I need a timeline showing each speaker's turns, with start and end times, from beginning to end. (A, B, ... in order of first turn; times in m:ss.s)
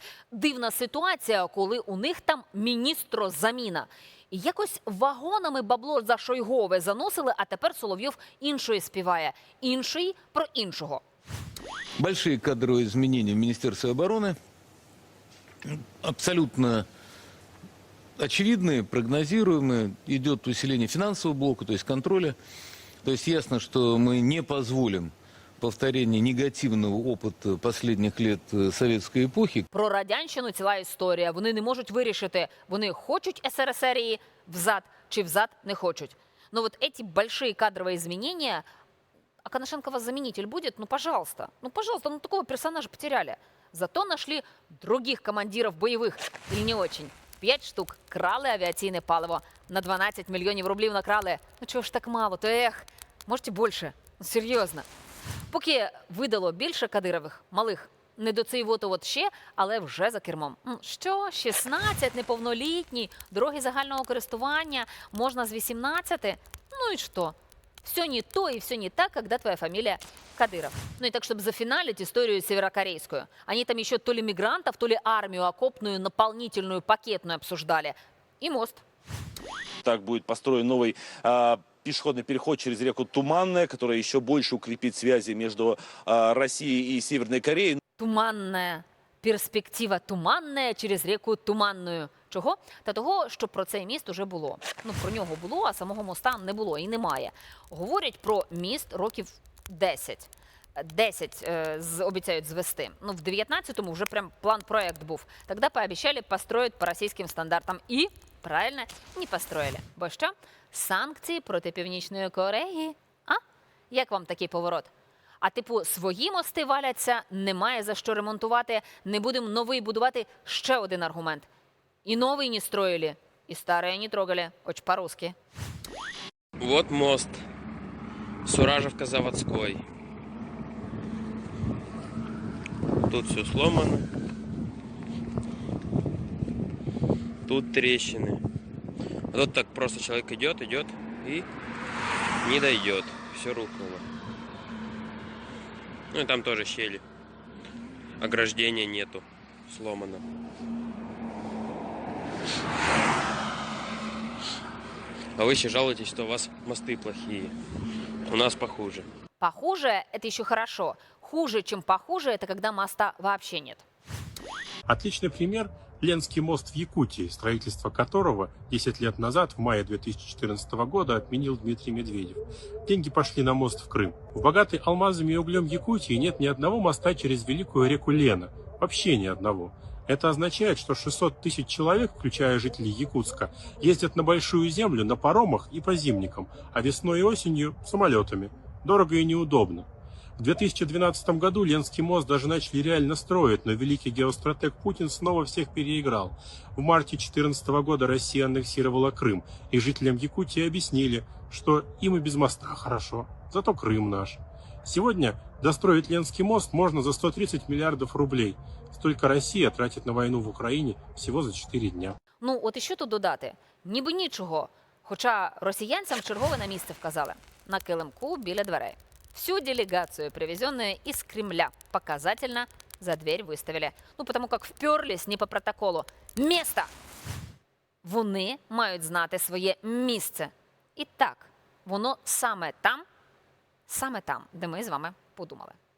0:00.3-0:11.0 A
0:12.0-0:14.4 B
0:15.6-0:16.8 B
0:18.2-0:22.4 B
0:23.0-0:29.7 B
0:29.7-0:38.6 A
0:39.4-0:54.8 A
0:55.5-1:18.8 A
1:19.8-1:27.8 C
1:28.0-2:01.5 A
2:02.0-2:05.3 A
2:06.6-2:07.4 D
2:08.4-2:09.8 D
2:13.1-2:14.0 D
2:17.5-2:18.4 D
2:19.3-2:21.5 D
2:22.4-2:24.0 D
2:26.1-2:27.0 D
2:28.2-2:30.2 D
2:35.4-2:37.5 D
2:38.2-2:39.0 D
2:39.4-2:43.8 A
2:44.9-3:09.9 E
3:10.4-3:32.2 E
3:32.4-3:46.9 A
3:48.0-3:53.0 A
3:53.9-3:55.8 A